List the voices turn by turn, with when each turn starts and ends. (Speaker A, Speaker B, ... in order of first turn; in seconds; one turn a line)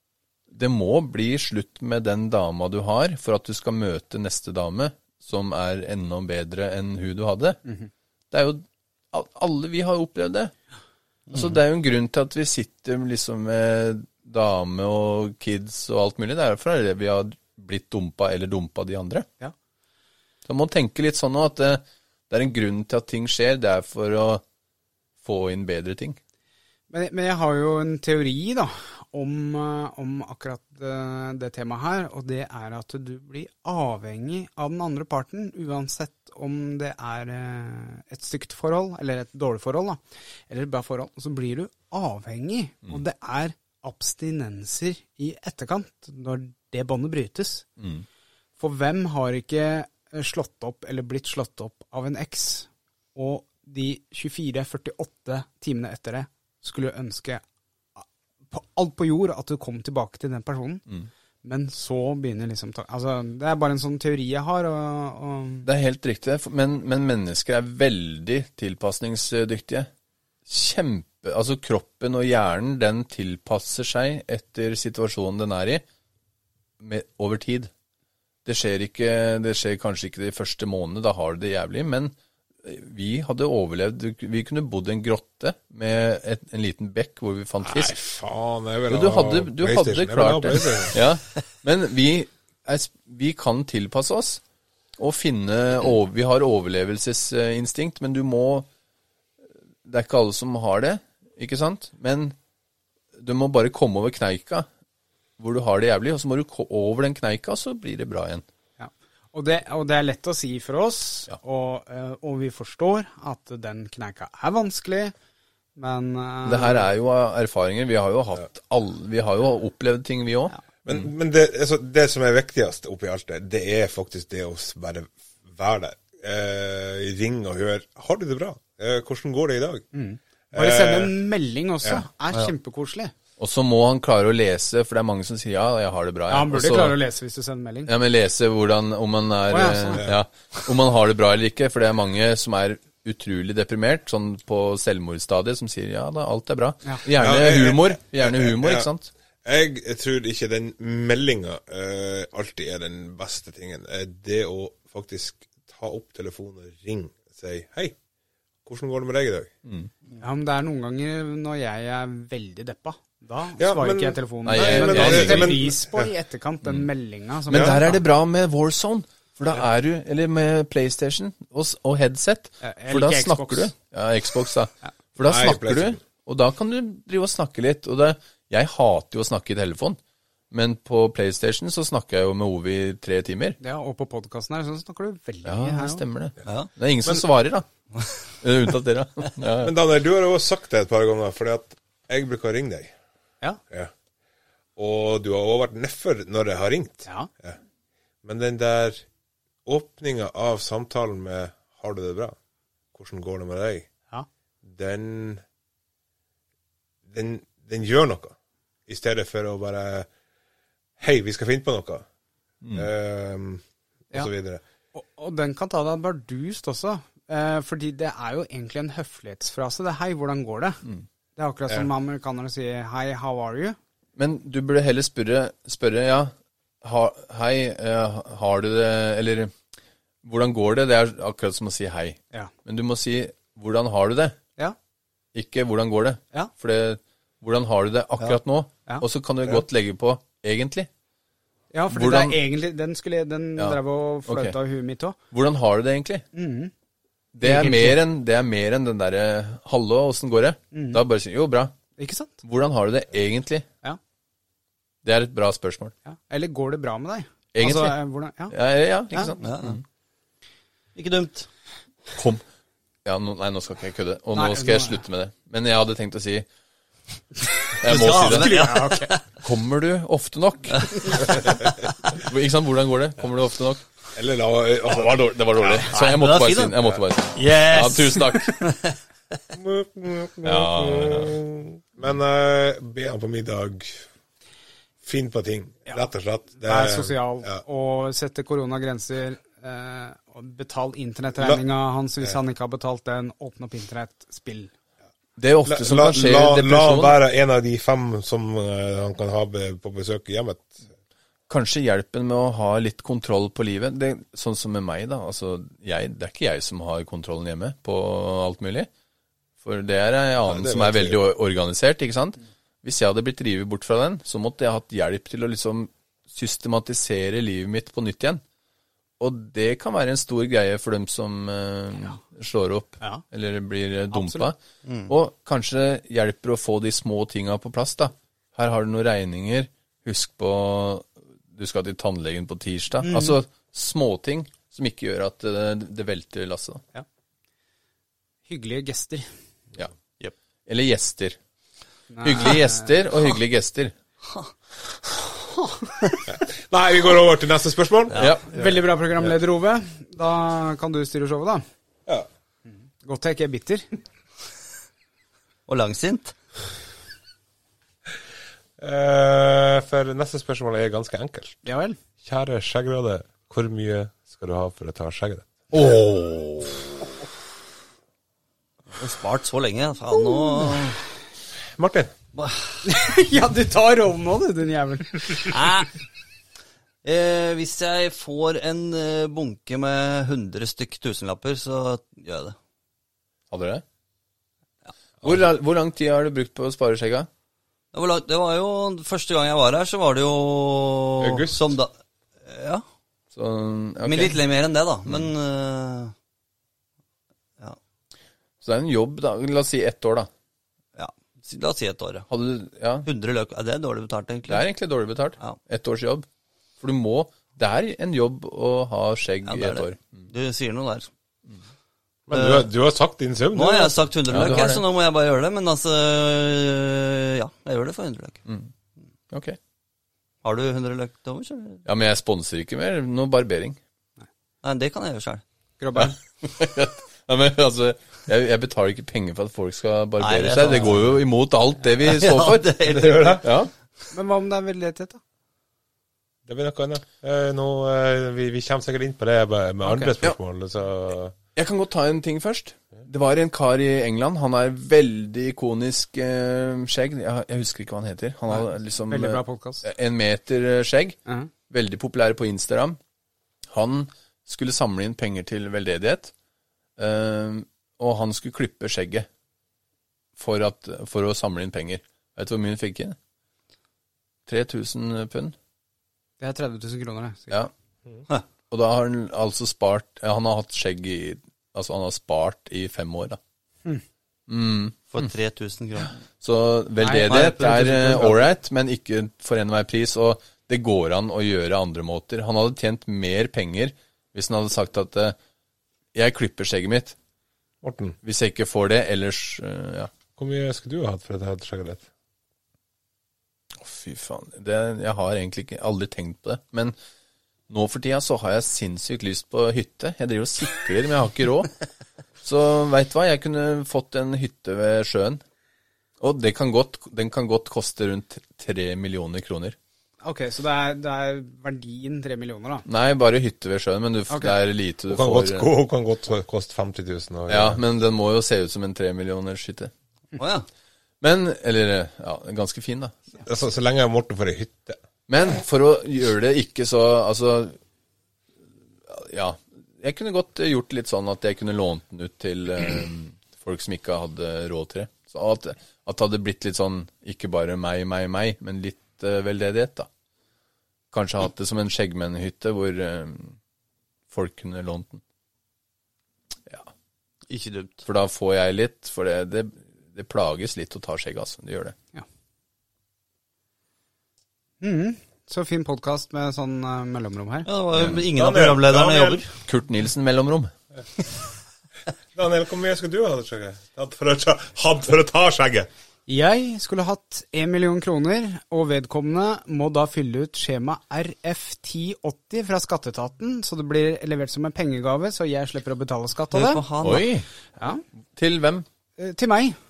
Speaker A: 0.5-7.6
Speaker A: 8.3-10.5
Speaker A: 11.3-19.3
Speaker A: 20.4-24.4
Speaker A: 25.2-26.2
Speaker B: 26.9-47.6
Speaker A: 47.8-48.0
Speaker B: 48.6-57.4
Speaker B: 58.0-60.9
Speaker B: 61.4-65.7
Speaker A: 65.6-69.9
Speaker A: 70.5-75.8
Speaker A: 76.8-77.7
Speaker A: 78.4-87.9
Speaker C: 87.6-91.0
Speaker A: 88.9-94.4
Speaker A: 95.0-98.7
Speaker A: 99.8-102.4
Speaker A: 103.1-104.7
Speaker A: 105.4-108.4
Speaker B: 108.8-115.1
Speaker B: 115.8-116.9
Speaker A: 116.4-121.1
Speaker C: 120.8-129.9
Speaker B: 129.9-133.1
Speaker C: 130.5-131.1
Speaker A: 133.4-137.0
Speaker B: 136.3-137.9
Speaker A: 137.9-149.1
Speaker B: 139.5-140.0
Speaker C: 147.1-148.9
Speaker C: 149.4-157.9
Speaker C: 158.6-159.5
Speaker A: 159.6-159.9
Speaker B: 160.2-168.0
Speaker C: 163.6-166.1
Speaker A: 164.4-165.6
Speaker A: 167.5-180.0
Speaker C: 167.5-167.8
Speaker B: 172.6-173.7
Speaker C: 175.2-176.0
Speaker A: 180.5-183.6
Speaker B: 183.6-186.0
Speaker A: 185.4-187.7
Speaker A: 188.4-189.7
Speaker C: 189.6-192.9
Speaker C: 194.8-197.6
Speaker C: 198.2-199.0
Speaker C: 199.7-202.3
Speaker C: 202.9-203.9
Speaker C: 204.7-205.4
Speaker C: 207.1-208.3
Speaker C: 208.9-210.1
Speaker C: 211.0-212.1
Speaker A: 212.6-212.9
Speaker C: 212.7-214.6
Speaker B: 214.9-220.8
Speaker B: 221.3-223.8
Speaker A: 224.2-229.5
Speaker A: 230.2-234.4
Speaker A: 235.3-240.9
Speaker B: 241.7-245.2
Speaker A: 241.9-242.4
Speaker A: 243.6-244.6
Speaker A: 245.3-246.2
Speaker B: 246.3-246.7
Speaker A: 247.3-251.7
Speaker B: 247.4-248.0
Speaker B: 250.7-251.0
Speaker B: 252.0-252.4
Speaker A: 252.4-253.7
Speaker A: 255.0-255.9
Speaker B: 256.1-258.6
Speaker A: 257.5-259.8
Speaker D: 259.4-259.8
Speaker D: 260.9-261.5
Speaker A: 262.1-262.4
Speaker A: 263.1-266.4
Speaker B: 264.4-265.0
Speaker A: 267.8-268.6
Speaker D: 267.9-269.2
Speaker B: 267.9-269.1
Speaker A: 269.4-271.5
Speaker A: 272.1-273.8
Speaker C: 274.1-275.9
Speaker A: 274.9-278.6
Speaker D: 275.9-279.0
Speaker C: 279.5-284.0
Speaker A: 280.4-281.4
Speaker C: 285.0-287.6
Speaker B: 286.6-294.7
Speaker A: 295.4-297.2
Speaker C: 295.7-300.8
Speaker A: 301.5-308.9
Speaker A: 309.6-318.4
Speaker C: 310.4-311.2
Speaker A: 319.2-336.8
Speaker B: 324.1-324.5
Speaker D: 324.9-325.1
Speaker B: 333.0-333.4
Speaker B: 338.5-339.3
Speaker A: 340.7-341.4
Speaker B: 342.1-342.9
Speaker A: 342.2-343.9
Speaker C: 346.3-348.2
Speaker D: 348.1-348.6
Speaker A: 348.1-348.4
Speaker B: 348.4-351.6
Speaker B: 353.0-353.9
Speaker D: 355.7-356.3
Speaker C: 358.8-361.6
Speaker B: 361.6-362.0
Speaker C: 362.2-365.6
Speaker A: 365.7-366.8
Speaker D: 368.9-371.0
Speaker C: 371.8-372.1
Speaker D: 372.4-372.8
Speaker B: 372.8-375.6
Speaker D: 375.4-375.9
Speaker D: 377.0-382.6
Speaker A: 383.5-383.8
Speaker A: 385.2-387.3
Speaker D: 387.9-391.9
Speaker C: 391.2-391.7
Speaker D: 392.4-392.8
Speaker A: 393.3-394.4
Speaker D: 394.0-396.1
Speaker A: 398.6-400.3
Speaker D: 400.9-402.3
Speaker A: 402.3-403.1
Speaker D: 403.1-404.6
Speaker A: 404.5-406.3
Speaker A: 406.8-410.3
Speaker D: 409.4-411.1
Speaker C: 412.3-413.9
Speaker D: 412.3-412.7
Speaker D: 413.5-418.4
Speaker A: 414.3-414.8
Speaker A: 419.3-419.6
Speaker D: 420.4-421.8
Speaker A: 421.9-423.8
Speaker D: 424.6-425.4
Speaker B: 425.8-426.2
Speaker A: 425.9-432.7
Speaker D: 430.2-431.2
Speaker D: 432.0-433.4
Speaker C: 432.9-433.5
Speaker A: 433.4-433.7
Speaker B: 434.1-435.2
Speaker C: 436.4-441.4
Speaker B: 439.9-440.1
Speaker A: 441.6-451.2
Speaker B: 448.5-449.9
Speaker A: 451.7-453.0
Speaker A: 453.7-456.3
Speaker A: 457.0-459.3
Speaker A: 460.4-463.2
Speaker A: 464.4-465.6
Speaker B: 466.4-467.6
Speaker A: 468.7-473.4
Speaker A: 474.5-475.3
Speaker D: 475.1-476.1
Speaker A: 476.4-485.4
Speaker B: 477.0-477.4
Speaker D: 477.2-478.5
Speaker A: 486.1-487.1
Speaker C: 487.8-488.2
Speaker A: 488.2-490.1
Speaker C: 490.4-492.1
Speaker A: 493.8-496.9
Speaker A: 497.7-501.7
Speaker A: 502.4-505.4
Speaker A: 506.2-509.8
Speaker B: 510.2-512.9
Speaker A: 512.9-515.7
Speaker B: 514.3-514.5
Speaker C: 515.1-517.8
Speaker A: 517.5-519.9
Speaker D: 520.4-520.6
Speaker A: 521.2-523.2
Speaker C: 523.4-525.0
Speaker A: 525.3-527.8
Speaker A: 529.0-540.1
Speaker A: 541.1-543.6
Speaker A: 544.3-545.2
Speaker D: 547.5-548.0
Speaker A: 548.0-552.0
Speaker B: 554.8-557.7
Speaker D: 557.6-559.5
Speaker A: 558.0-558.2
Speaker C: 558.0-559.4
Speaker A: 559.6-560.7
Speaker C: 562.4-565.9
Speaker B: 566.3-576.8
Speaker D: 576.5-577.3
Speaker A: 577.0-577.5
Speaker B: 577.8-578.0
Speaker A: 578.3-578.9
Speaker B: 579.2-579.8